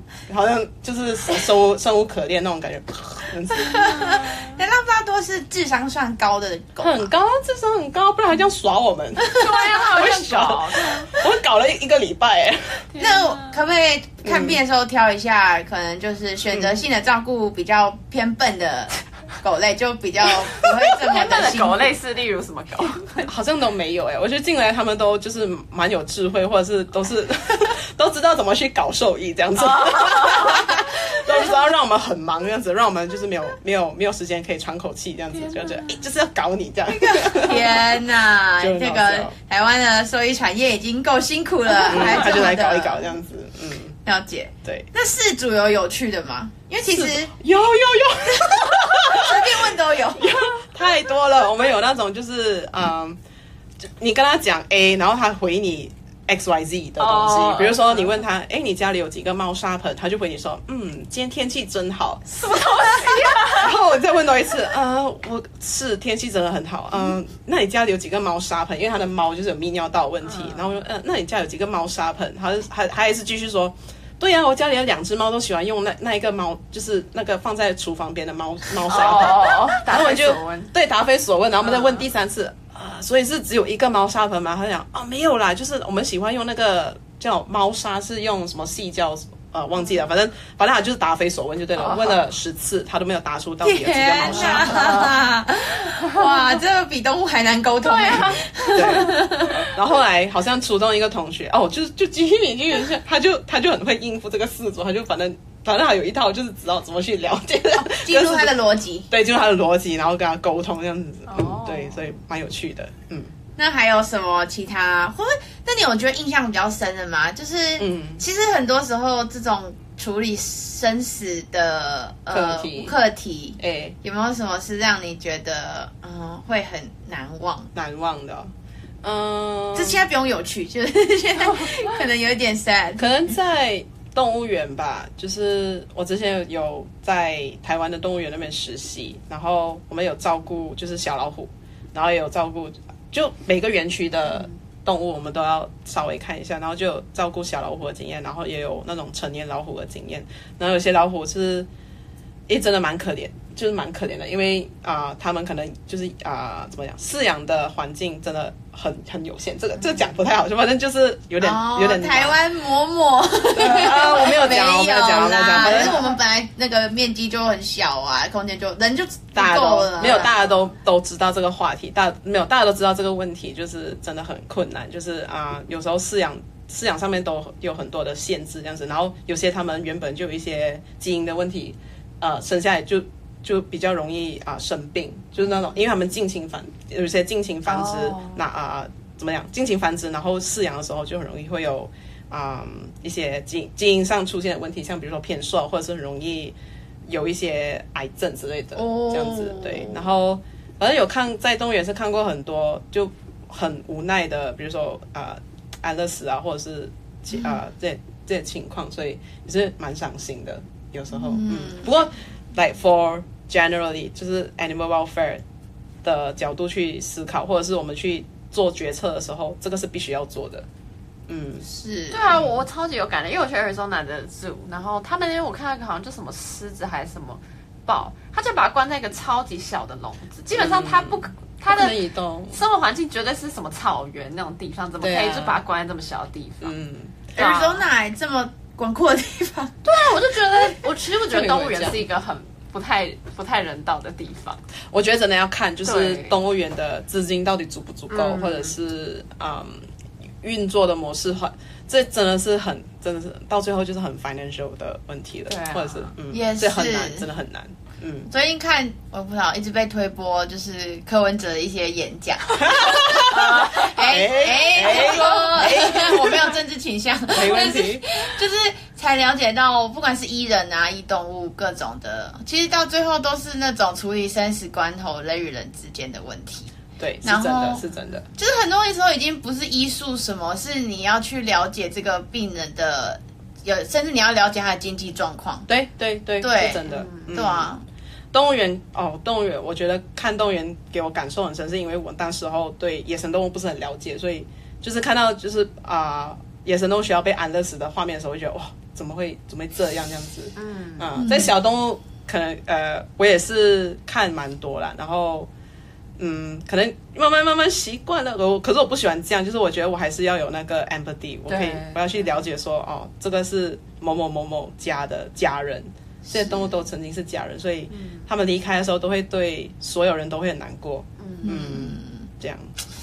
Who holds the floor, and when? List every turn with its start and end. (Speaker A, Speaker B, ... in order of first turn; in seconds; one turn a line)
Speaker A: 0.3-4.3
Speaker B: 3.5-7.1
Speaker A: 6.8-12.9
Speaker B: 9.2-10.0
Speaker C: 9.4-11.1
Speaker C: 12.9-13.5
Speaker B: 13.0-21.9
Speaker A: 14.2-14.6
Speaker C: 21.1-23.3
Speaker A: 22.8-38.0
Speaker C: 29.6-31.4
Speaker C: 35.4-36.0
Speaker B: 36.9-43.1
Speaker A: 38.6-39.3
Speaker A: 41.9-44.0
Speaker B: 44.0-47.3
Speaker A: 46.9-53.2
Speaker B: 48.5-50.4
Speaker A: 53.9-62.3
Speaker C: 57.0-58.1
Speaker C: 62.4-63.7
Speaker B: 62.4-63.4
Speaker A: 63.5-95.1
Speaker C: 70.3-70.6
Speaker C: 78.8-80.7
Speaker C: 81.6-82.0
Speaker C: 91.8-92.2
Speaker B: 93.6-99.7
Speaker C: 94.2-95.2
Speaker C: 96.1-96.3
Speaker C: 97.8-99.2
Speaker A: 98.7-108.6
Speaker B: 107.8-109.1
Speaker A: 109.1-113.3
Speaker C: 111.3-112.0
Speaker B: 113.6-127.7
Speaker A: 117.8-118.2
Speaker A: 122.3-122.9
Speaker A: 123.6-124.0
Speaker A: 127.7-128.5
Speaker A: 129.0-130.0
Speaker B: 129.7-133.1
Speaker A: 133.0-151.7
Speaker A: 152.5-162.4
Speaker B: 161.4-170.4
Speaker A: 163.5-166.0
Speaker A: 169.3-196.6
Speaker C: 187.7-188.4
Speaker A: 197.1-215.4
Speaker B: 198.7-200.0
Speaker B: 211.2-211.9
Speaker A: 216.0-220.7
Speaker A: 221.3-221.7
Speaker B: 221.6-222.4
Speaker C: 222.1-232.0
Speaker A: 230.5-232.6
Speaker C: 232.5-236.7
Speaker A: 235.0-235.6
Speaker A: 236.6-237.2
Speaker C: 237.4-237.8
Speaker B: 237.4-239.8
Speaker C: 239.9-244.6
Speaker A: 241.3-242.0
Speaker A: 244.9-249.9
Speaker C: 245.8-246.3
Speaker C: 248.1-248.7
Speaker A: 250.4-258.3
Speaker C: 255.5-256.1
Speaker B: 256.3-257.3
Speaker B: 258.3-276.7
Speaker A: 262.6-263.5
Speaker C: 263.3-264.2
Speaker A: 264.1-266.5
Speaker C: 264.8-265.2
Speaker A: 267.3-268.0
Speaker A: 277.0-278.3
Speaker B: 277.2-277.8
Speaker B: 278.4-285.7
Speaker A: 285.7-287.7
Speaker B: 286.4-287.8
Speaker C: 286.9-287.3
Speaker A: 288.3-305.5
Speaker C: 300.6-301.1
Speaker B: 301.1-301.5
Speaker A: 306.2-322.7
Speaker C: 311.5-312.0
Speaker B: 316.3-316.7
Speaker C: 317.9-318.2
Speaker C: 321.2-321.6
Speaker B: 321.4-322.3